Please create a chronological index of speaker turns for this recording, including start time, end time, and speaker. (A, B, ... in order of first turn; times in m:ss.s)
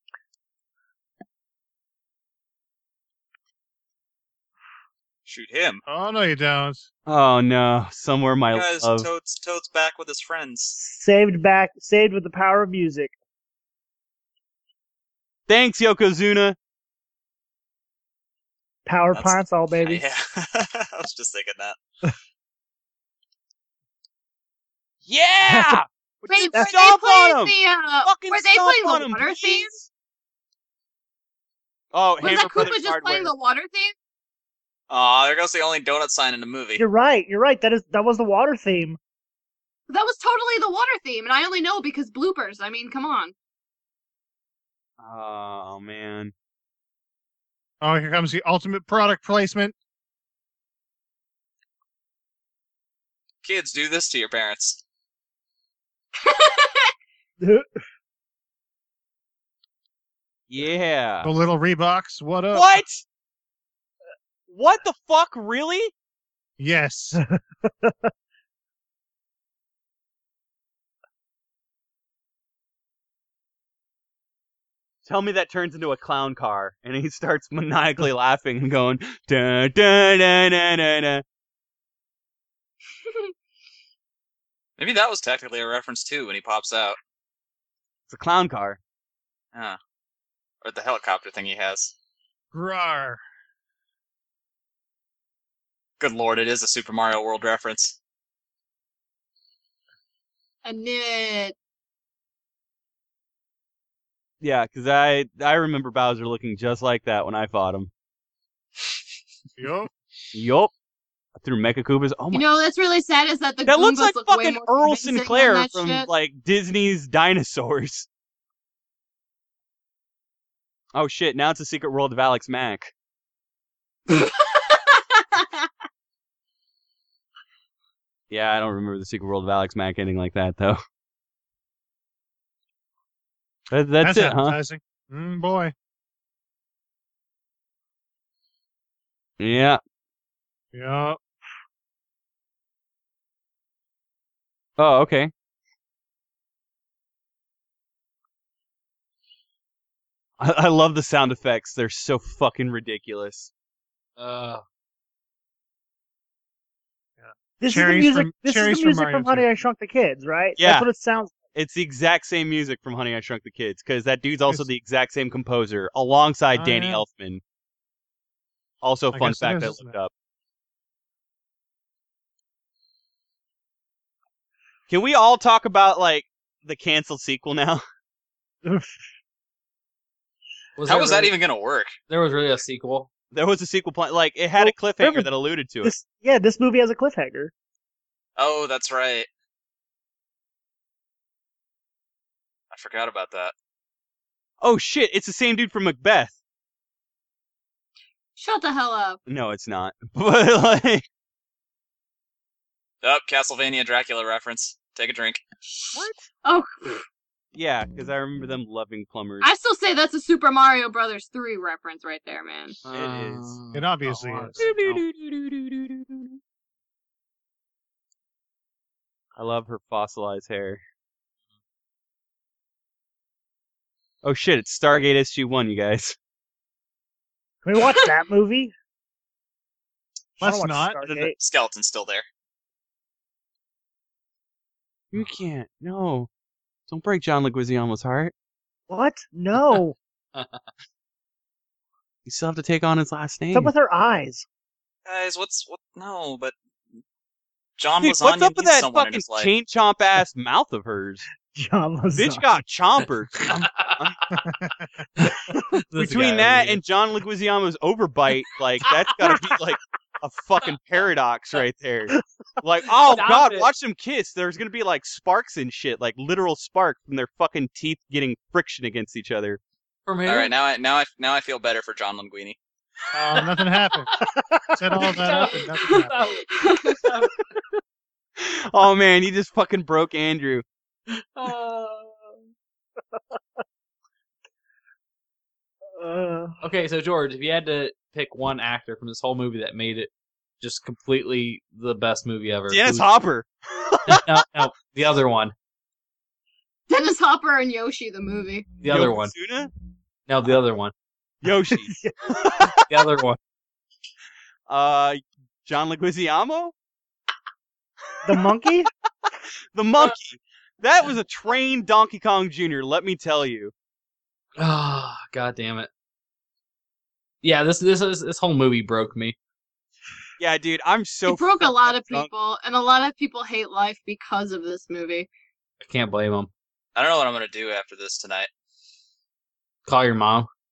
0:05.2-0:05.8 A
0:05.9-0:06.9 B
0:07.1-0:09.1 C
0:08.5-0:10.8 A
0:10.8-0:13.2 D
0:15.5-0:16.6 C
0:18.9-0:20.0 D
0:19.1-0:21.8 A
0:25.1-0:29.9 C
0:26.3-0:29.8 E
0:31.9-0:33.3 C
0:32.2-0:34.0 E
0:34.9-0:36.8 A
0:36.8-0:39.0 D
0:39.9-0:43.3 E
0:45.0-0:46.3 C
0:47.8-0:49.8 B
0:53.4-0:54.8 A
0:56.2-0:56.9 E
0:57.4-0:57.7 D
1:00.5-1:01.3 C
1:01.2-1:02.8 B
1:02.5-1:03.0 C
1:04.5-1:05.9 C
1:06.6-1:07.2 B
1:07.2-1:08.1 D
1:15.1-1:21.2 C
1:24.8-1:27.0 A
1:28.1-1:28.8 C
1:30.6-1:31.9 A
1:32.5-1:33.2 B
1:36.0-1:38.0 A
1:40.6-1:41.6 E
1:44.4-1:47.9 C
1:49.6-1:49.9 B
1:50.3-1:50.7 C
1:51.4-1:52.4 C
1:52.3-1:56.1 E
1:53.7-1:58.1 C
2:00.9-2:02.9 C
2:04.1-2:05.7 E
2:08.3-2:10.8 C
2:13.7-2:14.6 C
2:14.0-2:15.7 B
2:19.4-2:19.8 C
2:20.7-2:21.2 B
2:24.8-2:25.3 C
2:30.4-2:33.5 C
2:34.2-2:34.6 F
2:37.2-2:39.5 B
2:37.6-2:41.4 D
2:40.6-2:40.9 C
2:41.5-2:47.4 C
2:46.6-2:47.0 B
2:48.8-2:50.1 C
2:49.1-2:50.0 B
2:54.9-2:57.8 C
2:58.6-2:58.9 D
3:00.8-3:01.4 F
3:00.9-3:02.0 A
3:02.1-3:03.1 F
3:03.3-3:05.9 C
3:04.6-3:05.3 D
3:05.8-3:07.5 D
3:08.4-3:09.3 A
3:12.7-3:13.5 A
3:14.6-3:16.4 C
3:18.4-3:19.2 E
3:19.3-3:21.0 C
3:23.0-3:25.4 A
3:25.6-3:27.0 E
3:26.0-3:26.2 C
3:27.5-3:29.5 C
3:29.4-3:32.8 E
3:32.8-3:35.0 F
3:32.9-3:33.6 C
3:33.7-3:34.6 B
3:34.6-3:36.4 C
3:39.4-3:40.8 C
3:44.2-3:46.2 C
3:47.6-3:48.7 D
3:50.4-3:51.4 D
3:50.4-3:51.3 B
3:51.4-3:52.2 A
3:55.1-3:56.3 C
3:56.9-3:58.3 C
3:58.9-4:00.0 D
4:00.4-4:00.6 F
4:02.3-4:03.7 C
4:03.5-4:04.5 D
4:05.1-4:06.6 A
4:07.8-4:09.5 A
4:08.0-4:11.3 C
4:11.5-4:12.5 D
4:12.2-4:14.2 C
4:13.5-4:14.4 F
4:14.4-4:14.9 B
4:15.2-4:16.8 F
4:16.0-4:29.6 C
4:23.0-4:23.7 F
4:30.1-4:30.5 F
4:30.2-4:32.6 A
4:33.1-4:34.1 B
4:34.2-4:34.8 D
4:34.7-4:36.2 B
4:35.0-4:37.6 F
4:35.8-4:37.2 E
4:38.4-4:40.6 C
4:41.1-4:42.4 F
4:46.0-4:46.6 D
4:46.6-4:53.1 F
4:52.7-4:54.4 C
4:54.1-4:55.5 F
4:56.9-4:58.8 E
4:58.8-4:59.3 F
4:58.9-4:59.7 C
5:00.3-5:00.9 F
5:01.4-5:03.0 C
5:01.9-5:02.7 D
5:02.9-5:03.4 F
5:04.7-5:06.7 C
5:08.2-5:08.9 D
5:09.7-5:13.7 C
5:14.6-5:15.9 F
5:17.4-5:19.4 F
5:20.4-5:22.3 C
5:21.3-5:25.3 E
5:25.8-5:26.5 F
5:27.0-5:28.5 A
5:29.9-5:30.5 F